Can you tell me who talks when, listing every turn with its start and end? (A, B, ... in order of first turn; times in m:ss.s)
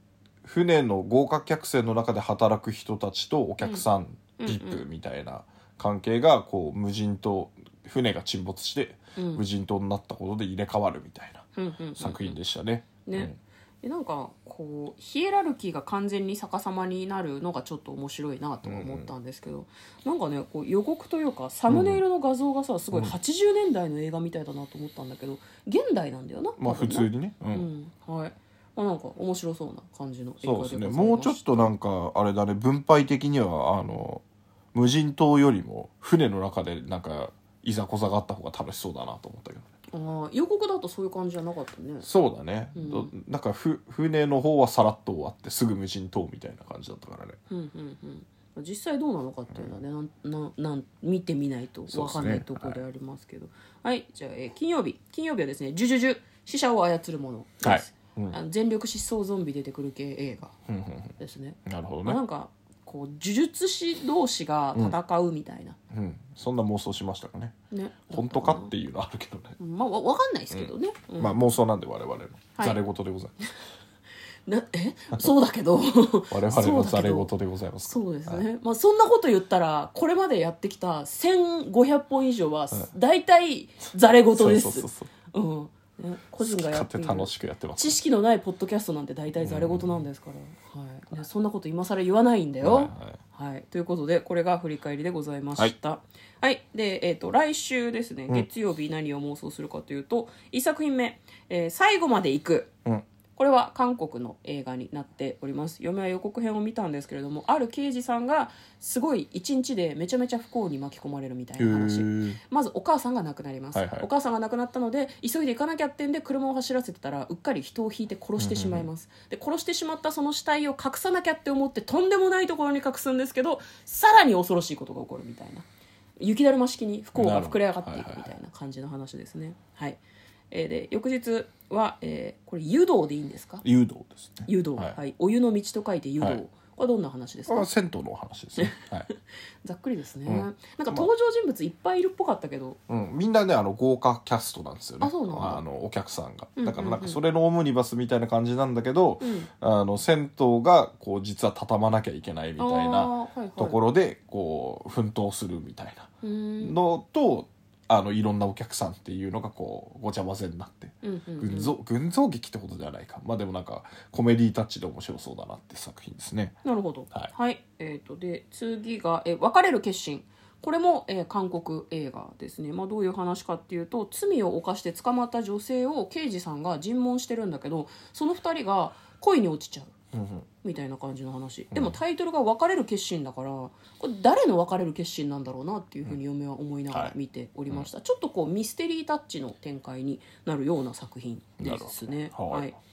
0:00.4-0:11.4 A
0:04.4-0:04.8 B
0:09.2-0:09.4 B
0:11.6-0:12.4 B
0:12.0-0:13.4 A
0:13.0-0:31.7 B
0:18.6-0:19.1 A
0:21.7-0:22.0 A
0:26.6-0:27.7 A
0:30.4-0:39.7 A
0:39.9-0:42.1 B
0:42.0-0:47.4 A
0:42.8-0:43.1 B
0:47.5-1:00.5 B
0:51.9-0:52.8 A
0:57.6-0:58.4 A
1:00.7-1:02.2 A
1:01.2-1:05.8 B
1:05.9-1:07.6 A
1:07.7-1:08.7 B
1:08.1-1:09.6 A
1:09.6-1:11.6 B
1:10.5-1:13.4 A
1:14.5-1:17.3 B
1:16.3-1:18.4 A
1:17.8-1:42.7 B
1:24.3-1:25.1 A
1:26.4-1:28.0 A
1:29.4-1:30.0 A
1:32.6-1:33.2 A
1:43.4-2:05.6 B
1:51.6-1:52.4 A
1:53.7-1:54.1 A
1:58.4-1:58.9 A
2:06.2-2:13.6 B
2:07.2-2:08.3 A
2:13.6-2:15.0 A
2:14.5-2:17.7 B
2:17.5-2:19.1 A
2:18.6-2:18.8 B
2:19.6-2:22.8 B
2:20.2-2:21.1 A
2:22.9-2:46.6 A
2:25.0-2:25.6 B
2:26.6-2:27.2 B
2:29.2-2:29.5 B
2:32.6-2:33.8 B
2:36.2-2:36.8 B
2:41.0-2:41.7 B
2:46.6-2:59.9 B
3:00.1-3:00.5 A
3:00.6-3:12.8 B
3:11.6-3:12.7 A